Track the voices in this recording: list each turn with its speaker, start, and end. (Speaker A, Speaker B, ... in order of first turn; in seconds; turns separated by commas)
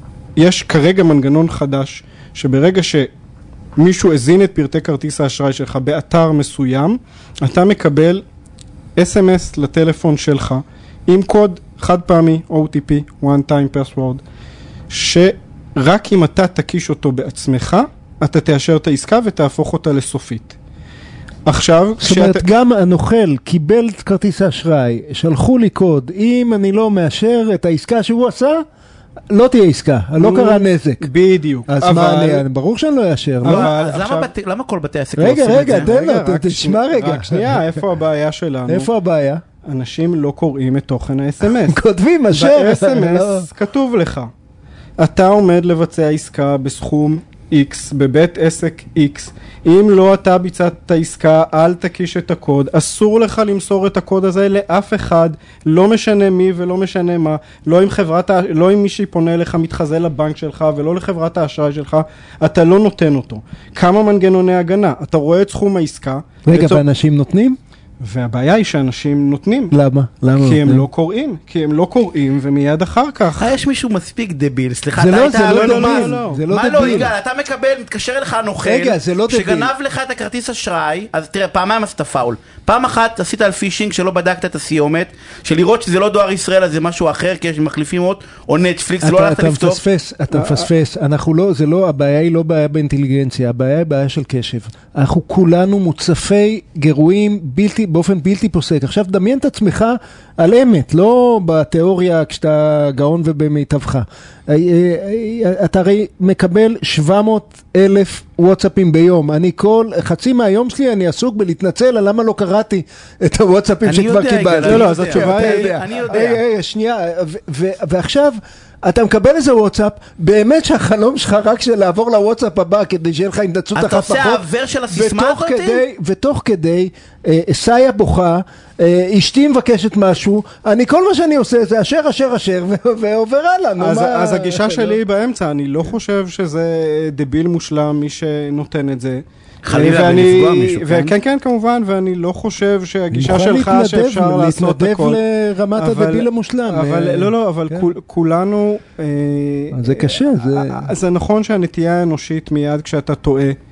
Speaker A: 0.4-3.1, Speaker A: 3.8-8.2, Speaker A: 9.0-14.2, Speaker A: 14.9-20.6, Speaker A: 21.5-22.4, Speaker B: 22.0-28.6, Speaker B: 29.3-31.1, Speaker A: 30.2-32.4, Speaker B: 31.7-33.7, Speaker A: 33.4-34.3, Speaker C: 33.4-35.9, Speaker B: 35.2-37.8, Speaker A: 35.5-38.9, Speaker B: 38.7-39.4, Speaker A: 39.6-41.8, Speaker B: 41.4-43.5, Speaker A: 42.3-44.3, Speaker A: 45.0-66.8, Speaker B: 66.5-67.6, Speaker A: 68.0-69.7, Speaker B: 69.7-70.9, Speaker A: 70.4-73.6, Speaker C: 73.4-89.8, Speaker B: 75.0-77.1, Speaker A: 75.4-77.1, Speaker B: 78.6-79.7, Speaker B: 89.0-135.0, Speaker A: 90.3-90.7, Speaker C: 113.9-116.4, Speaker A: 114.6-115.8, Speaker C: 123.8-125.8, Speaker A: 133.8-145.2, Speaker C: 139.6-141.1, Speaker B: 143.1-147.9, Speaker A: 145.8-153.6, Speaker B: 149.7-150.9